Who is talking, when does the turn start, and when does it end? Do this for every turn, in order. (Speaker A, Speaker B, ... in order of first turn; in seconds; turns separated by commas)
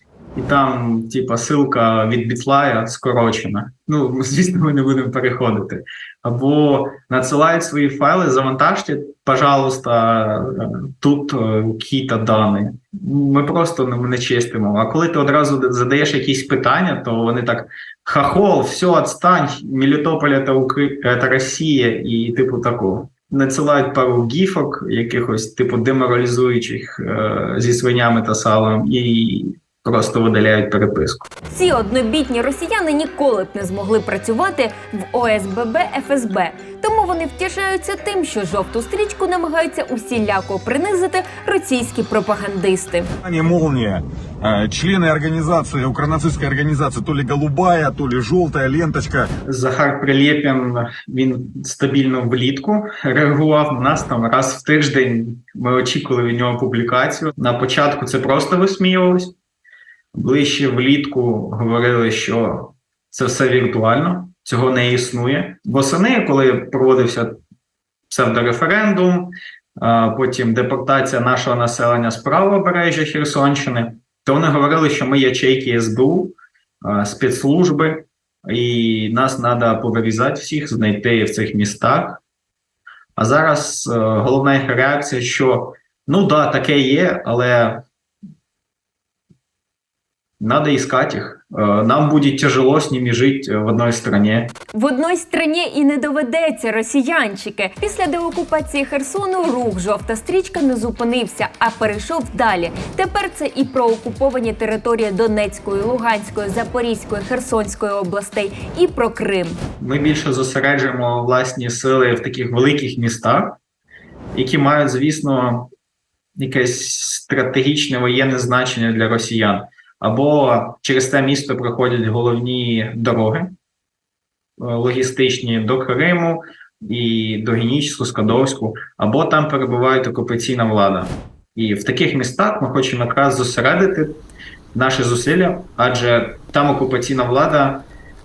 Speaker A: 0.3-31.3, Speaker B: 31.5-43.1, Speaker C: 43.2-49.3, Speaker A: 49.5-59.3, Speaker A: 60.1-67.3, Speaker A: 68.1-82.2, Speaker A: 83.2-87.8, Speaker A: 90.4-94.5, Speaker B: 94.7-109.6, Speaker A: 109.8-113.6, Speaker A: 114.3-115.7, Speaker A: 116.4-123.5, Speaker A: 124.6-134.1, Speaker A: 134.7-137.8